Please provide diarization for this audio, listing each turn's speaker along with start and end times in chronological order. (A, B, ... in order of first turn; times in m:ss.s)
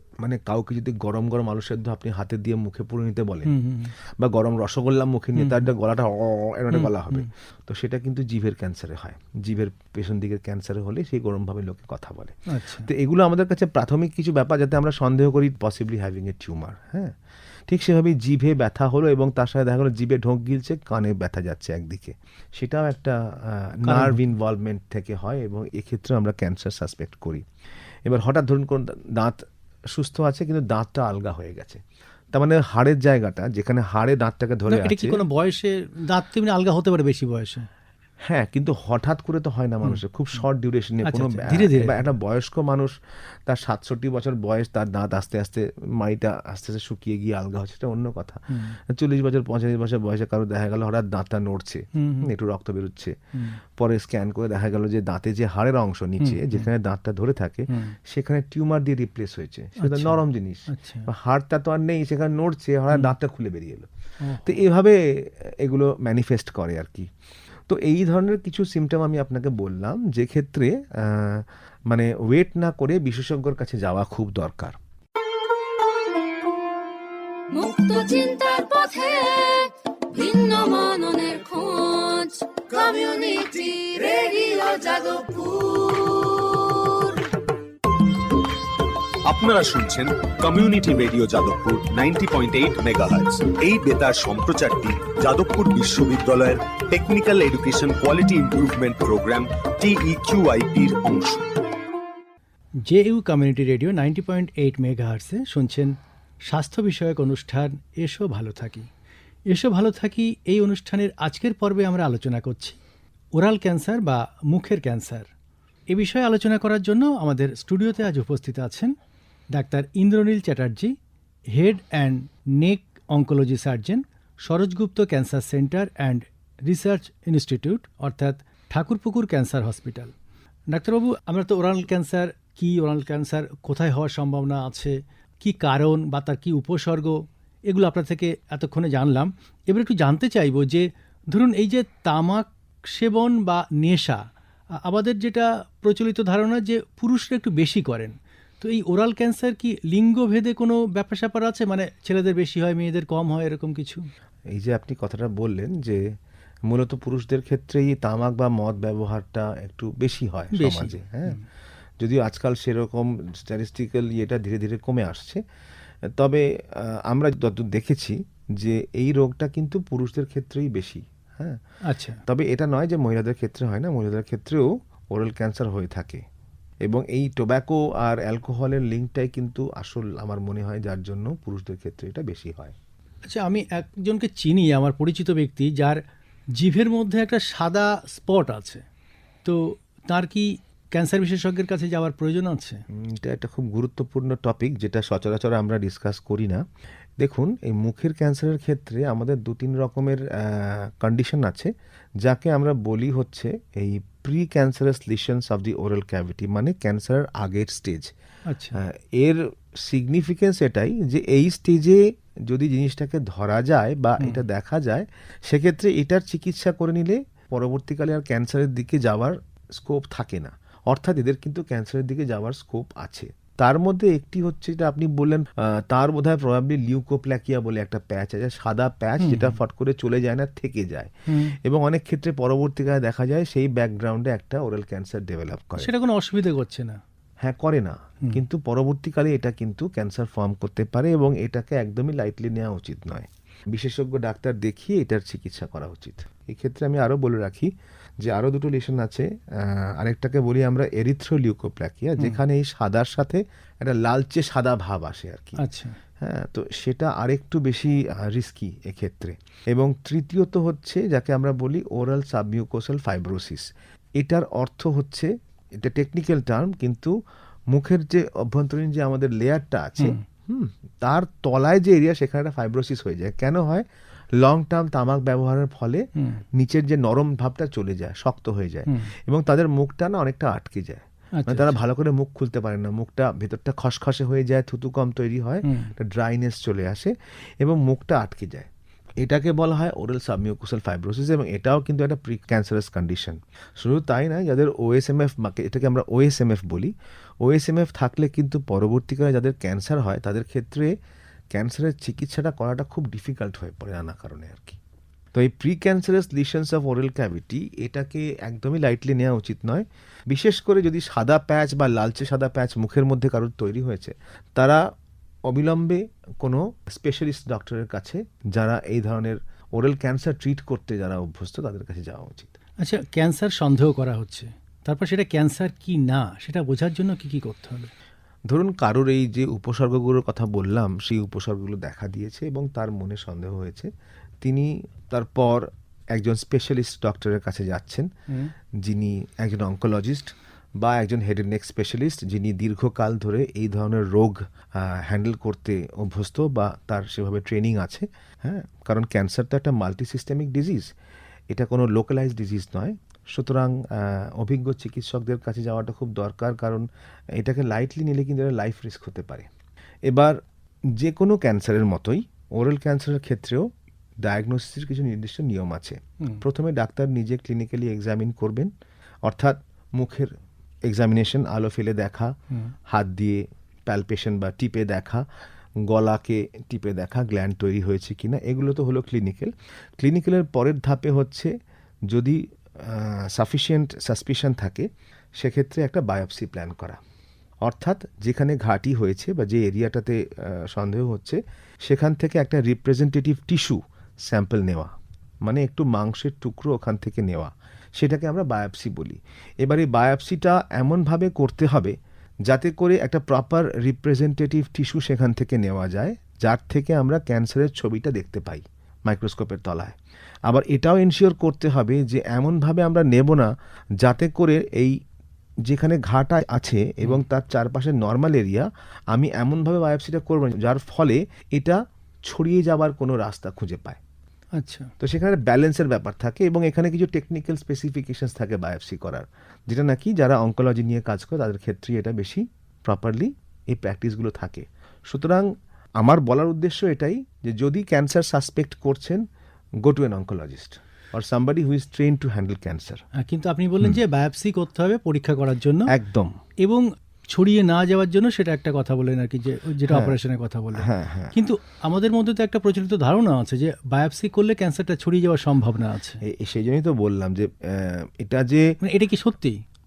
0:00.2-0:03.6 A
0:03.5-0:03.9 B
0:04.2-0:17.1 A
0:05.4-0:05.6 B
0:06.7-0:07.3 B
0:12.5-0:12.9 B
0:17.7-0:27.4 A
0:23.8-0:24.2 B
0:28.0-0:31.8 A
0:32.3-0:35.2 A
0:34.7-0:37.7 B
0:38.2-0:42.9 A
0:41.0-0:42.0 B
0:43.5-1:03.9 A
0:48.5-0:48.8 B
0:52.0-0:52.3 B
0:56.2-0:56.7 B
0:57.7-0:58.0 B
0:59.8-1:01.1 B
1:04.2-1:04.6 B
1:04.4-1:07.1 A
1:07.7-1:14.8 A
1:17.5-1:27.2 C
1:29.2-1:41.5 D
1:42.8-1:48.9 B
1:49.5-1:52.8 B
1:53.4-1:55.3 B
1:55.9-1:59.0 B
1:59.5-2:00.9 B
2:01.5-2:10.1 B
2:10.7-2:24.2 B
2:24.8-2:34.0 B
2:34.5-2:36.0 A
2:36.7-2:41.4 A
2:40.5-2:41.4 B
2:42.0-2:45.4 A
2:46.0-2:51.6 A
2:51.9-2:52.2 B
2:52.3-2:56.2 A
2:56.8-3:02.8 A
3:03.2-3:06.0 B
3:06.6-3:08.8 B
3:09.4-3:12.8 B
3:12.9-3:16.6 A
3:17.2-3:28.1 A
3:28.5-3:28.8 B
3:28.8-3:55.9 A
3:49.2-3:49.6 B
3:51.3-3:51.5 B
3:55.8-3:57.0 B
3:57.4-4:15.6 A
4:15.6-4:16.0 B
4:16.2-4:27.1 A
4:27.7-4:33.8 A
4:34.4-4:48.7 A
4:36.2-4:36.4 B
4:41.4-4:41.8 B
4:45.6-4:45.9 B
4:49.2-5:00.9 A
5:01.5-5:04.8 A
5:05.3-5:14.8 A
5:15.5-5:22.5 A
5:22.8-5:27.9 B
5:28.5-5:33.9 A
5:34.4-5:38.1 A
5:38.8-5:50.9 A
5:51.5-5:59.5 A
6:00.1-6:00.4 A
6:00.9-6:03.7 A
6:04.2-6:08.7 A
6:09.2-6:10.3 A
6:10.8-6:12.3 A
6:12.9-6:15.2 A
6:15.9-6:21.5 A
6:22.1-6:24.9 A
6:25.4-6:27.0 A
6:27.6-6:55.0 A
6:55.6-7:04.0 A
7:04.6-7:04.9 B
7:05.0-7:19.2 A
7:19.8-7:23.0 A
7:23.2-7:25.9 B
7:25.9-7:26.4 A
7:26.6-7:36.2 B
7:29.9-7:30.2 A
7:30.8-7:31.4 A
7:36.2-7:38.7 A
7:38.8-7:39.6 B